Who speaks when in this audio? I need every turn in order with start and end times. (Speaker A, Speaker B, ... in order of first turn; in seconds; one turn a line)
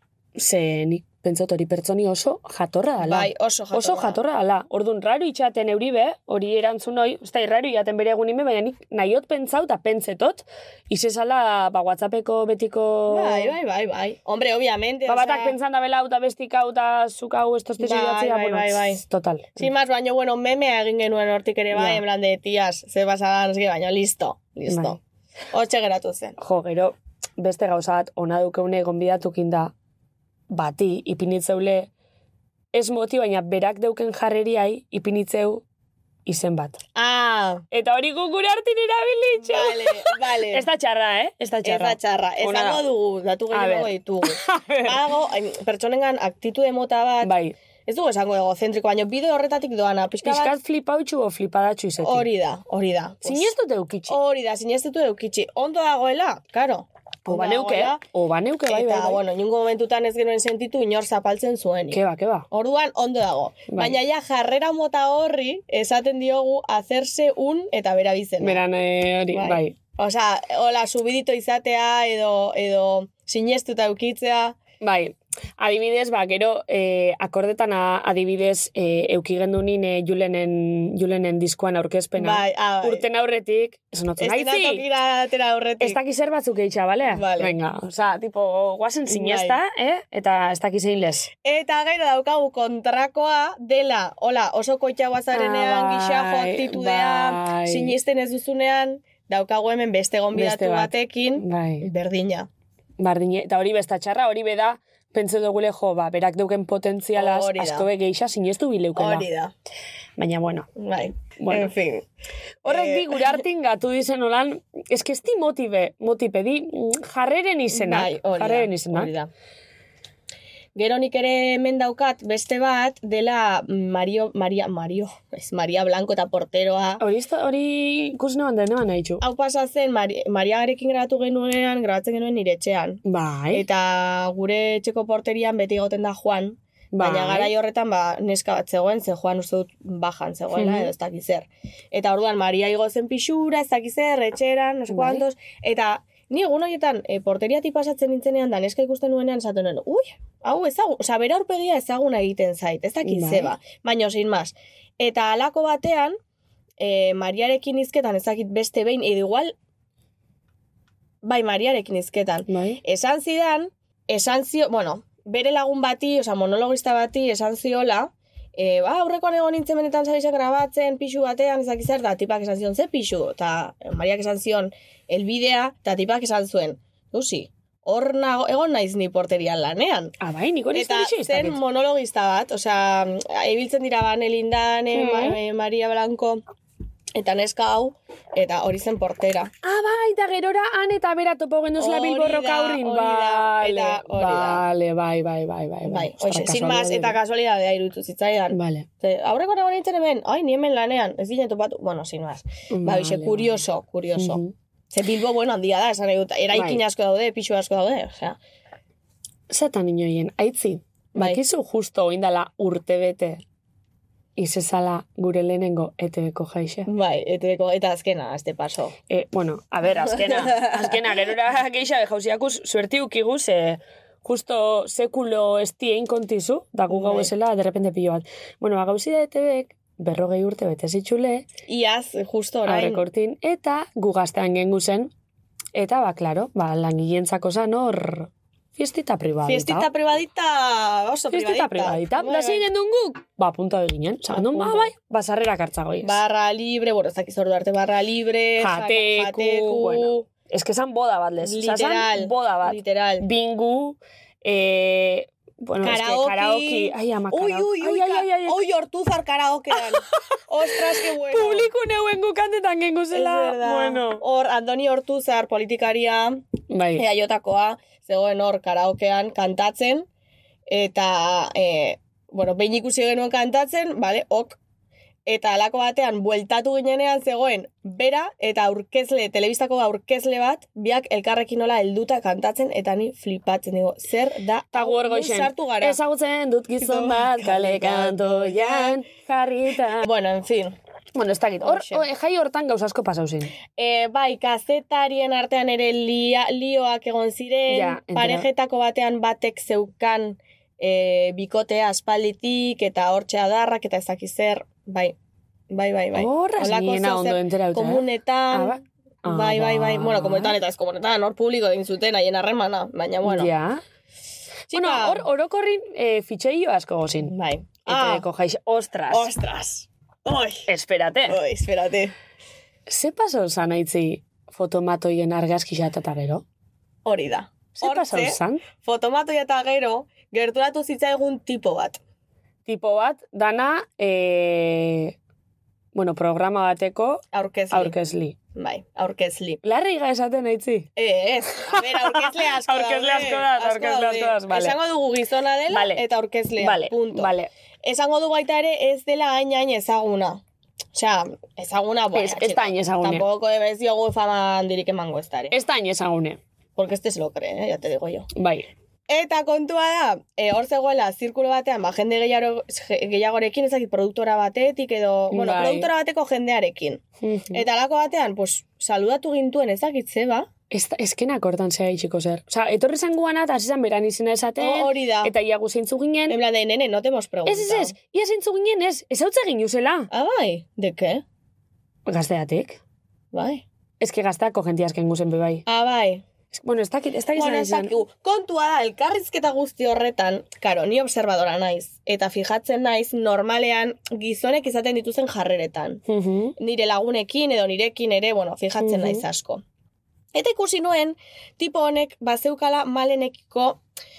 Speaker A: 0.3-13.5
Speaker B: 3.0-4.2
Speaker B: 13.1-15.6
Speaker A: 15.1-19.7
Speaker B: 17.8-19.0
Speaker B: 19.6-25.0
Speaker A: 21.7-22.0
Speaker A: 24.7-25.0
Speaker B: 25.5-26.4
Speaker A: 26.4-29.7
Speaker A: 30.5-31.9
Speaker A: 32.7-35.6
Speaker A: 36.2-36.8
Speaker B: 36.9-37.6
Speaker A: 37.7-42.9
Speaker B: 39.4-40.6
Speaker B: 41.6-47.3
Speaker A: 43.5-45.1
Speaker A: 47.2-47.5
Speaker B: 47.9-50.5
Speaker A: 50.2-52.3
Speaker B: 52.0-53.5
Speaker A: 53.2-54.2
Speaker B: 54.1-58.0
Speaker A: 57.3-59.2
Speaker B: 58.7-68.6
Speaker A: 61.9-62.5
Speaker A: 63.7-64.0
Speaker A: 68.4-69.8
Speaker B: 69.3-74.6
Speaker A: 74.8-84.8
Speaker B: 82.2-83.0
Speaker B: 84.2-86.0
Speaker A: 85.8-91.3
Speaker B: 87.1-87.5
Speaker B: 89.1-89.6
Speaker B: 91.4-102.5
Speaker A: 95.3-98.0
Speaker A: 100.3-101.9
Speaker A: 103.0-109.2
Speaker B: 107.2-107.9
Speaker B: 108.9-109.5
Speaker A: 110.2-110.7
Speaker B: 110.8-112.1
Speaker A: 111.4-111.7
Speaker B: 112.6-113.4
Speaker A: 112.6-119.1
Speaker B: 117.7-119.3
Speaker B: 120.7-127.0
Speaker A: 127.0-129.2
Speaker B: 129.2-156.2
Speaker A: 133.1-133.6
Speaker A: 136.9-137.5
Speaker A: 140.5-140.9
Speaker A: 144.9-145.2
Speaker A: 153.0-153.5
Speaker B: 156.8-159.5
Speaker B: 161.2-180.1
Speaker A: 162.5-162.8
Speaker A: 180.2-181.6
Speaker B: 180.7-186.4
Speaker A: 184.9-185.4
Speaker B: 187.1-189.5
Speaker A: 189.6-197.2
Speaker B: 191.8-194.6
Speaker B: 195.8-208.4
Speaker A: 198.5-198.8
Speaker A: 202.7-203.6
Speaker A: 204.1-204.5
Speaker A: 206.5-206.8
Speaker A: 209.5-213.4
Speaker B: 211.1-211.4
Speaker A: 214.3-216.9
Speaker B: 216.8-218.9
Speaker A: 219.1-231.4
Speaker B: 220.1-220.9
Speaker B: 226.9-227.3
Speaker B: 231.7-233.0
Speaker A: 232.7-235.1
Speaker A: 235.7-239.9
Speaker B: 239.4-242.7
Speaker A: 241.3-246.2
Speaker B: 244.3-244.9
Speaker B: 246.0-250.2
Speaker A: 248.6-258.6
Speaker B: 251.4-253.3
Speaker B: 255.8-261.7
Speaker A: 259.8-260.2
Speaker A: 261.2-264.2
Speaker B: 263.1-266.4
Speaker A: 266.7-267.0
Speaker B: 266.9-270.1
Speaker B: 270.7-274.6
Speaker B: 275.2-286.0
Speaker A: 284.7-290.1
Speaker B: 286.8-289.0
Speaker B: 290.0-290.8
Speaker A: 291.1-293.5
Speaker B: 291.6-292.0
Speaker B: 293.7-305.1
Speaker A: 297.7-298.5
Speaker B: 305.7-313.5
Speaker A: 306.1-310.6
Speaker A: 313.2-313.8
Speaker B: 314.7-315.3
Speaker A: 314.7-317.3
Speaker B: 317.2-318.2
Speaker A: 317.9-319.3
Speaker B: 319.1-320.7
Speaker A: 320.7-321.4
Speaker B: 321.2-322.1
Speaker A: 322.9-326.4
Speaker B: 327.0-332.0
Speaker A: 327.8-328.6
Speaker A: 332.6-335.1
Speaker A: 335.9-338.4
Speaker B: 337.3-337.9
Speaker B: 338.5-339.6
Speaker A: 339.6-340.9
Speaker B: 341.0-347.3
Speaker A: 341.6-344.8
Speaker A: 345.7-346.0
Speaker A: 346.6-347.5
Speaker B: 347.8-350.4
Speaker B: 350.9-355.6
Speaker A: 352.1-353.2
Speaker A: 355.5-356.4
Speaker B: 356.8-358.3
Speaker A: 358.4-358.7
Speaker B: 359.1-370.5
Speaker A: 365.3-365.9
Speaker A: 367.2-367.6
Speaker A: 370.7-376.4
Speaker B: 374.6-375.3
Speaker B: 376.3-377.9
Speaker A: 377.4-380.1
Speaker B: 380.1-381.2
Speaker A: 382.1-382.8
Speaker B: 383.3-383.6
Speaker A: 384.0-385.6
Speaker B: 385.7-386.2
Speaker A: 386.5-387.9
Speaker B: 387.3-396.0
Speaker A: 396.1-396.6
Speaker B: 396.6-399.6
Speaker A: 398.8-399.2
Speaker B: 400.3-403.8